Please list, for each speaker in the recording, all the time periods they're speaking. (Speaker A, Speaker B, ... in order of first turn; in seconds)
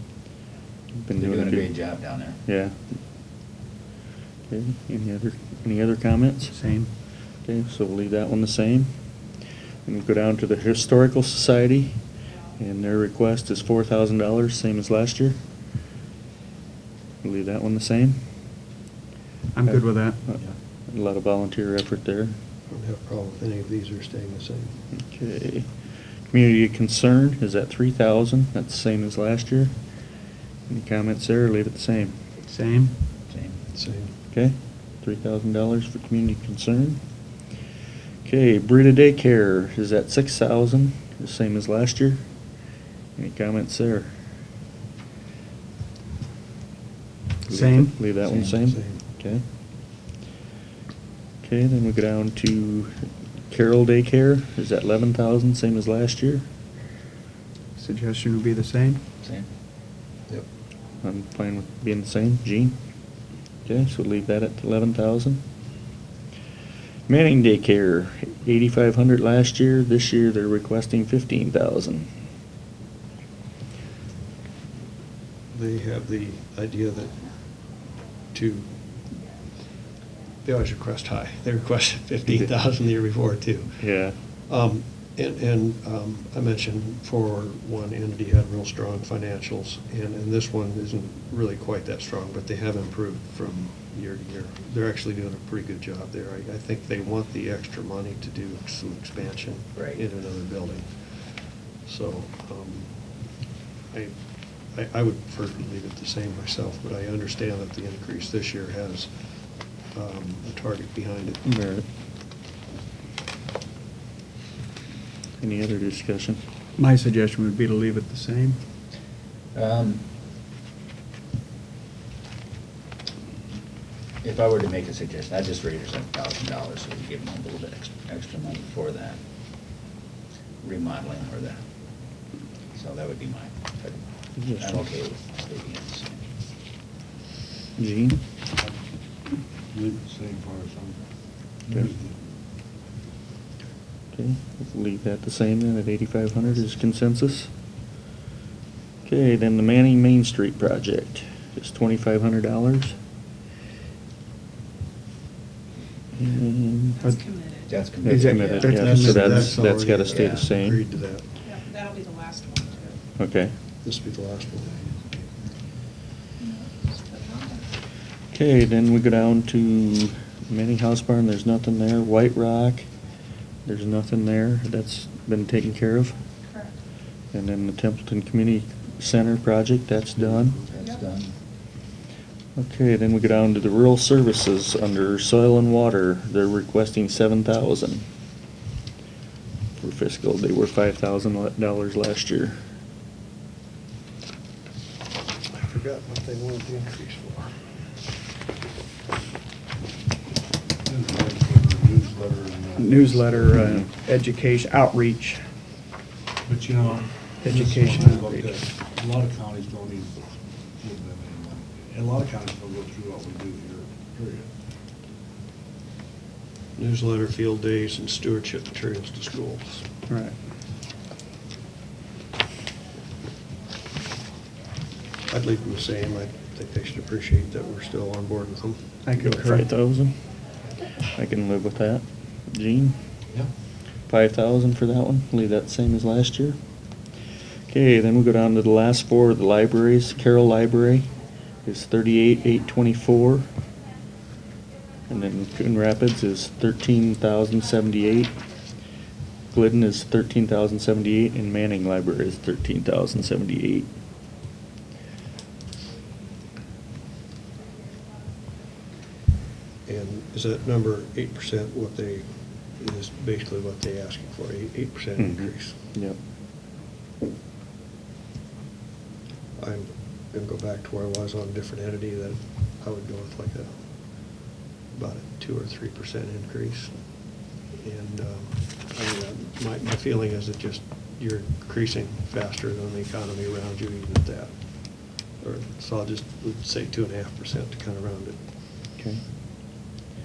Speaker A: 1.0-1.7, 2.5-2.8, 4.5-6.6, 7.5-8.9, 9.9-12.0, 12.6-15.4, 17.2-18.2, 19.7-22.4, 24.9-25.7, 26.3-29.7, 30.7-32.2, 34.3-37.0, 38.2-42.2, 43.2-44.1, 47.5-49.4, 51.4-52.9, 53.5-56.4, 61.0-62.8, 63.7-65.4, 67.1-72.1, 82.3-82.5, 83.8-84.2, 111.5-111.9, 115.4-116.4, 134.4-134.8, 137.8-138.2, 144.1-147.5, 149.1-153.0, 156.2-157.0, 158.2-160.8, 163.2-163.5, 168.3-172.9, 173.7-176.2, 177.3-180.6, 182.6-188.1, 189.8-192.6, 229.2-230.2, 231.1-233.0, 234.1-236.6, 237.7-241.1, 241.7-243.5, 245.1-248.4, 249.5-253.9, 265.2-266.2
Speaker B: 1.2-2.4, 33.3-33.6, 48.2-48.6, 59.2-59.5, 99.8-100.0, 119.5-120.0, 124.2-129.2, 130.6-131.6, 132.8-136.2, 157.7-158.8, 160.1-160.5, 180.7-181.3
Speaker C: 6.5-6.9, 19.5-20.2, 32.4-33.0, 47.5-47.9, 57.8-59.0, 116.8-118.6, 158.0-159.5, 202.8-205.5, 207.4-208.6, 220.1-220.4, 229.1-229.7
Speaker D: 22.7-24.8, 33.7-34.1, 48.5-49.0, 75.5-77.2, 78.3-78.7, 80.4-102.9, 104.7-109.3, 109.9-111.5, 158.7-161.3, 163.8-164.8, 195.5-197.7, 216.8-219.9, 225.3-229.0, 259.9-265.8, 269.6-273.7, 274.9-277.0, 277.7-288.4
Speaker E: 139.7-141.0, 141.7-142.2, 200.8-203.7, 206.4-214.5
Speaker F: 157.0-157.8, 161.4-162.9, 166.5-167.6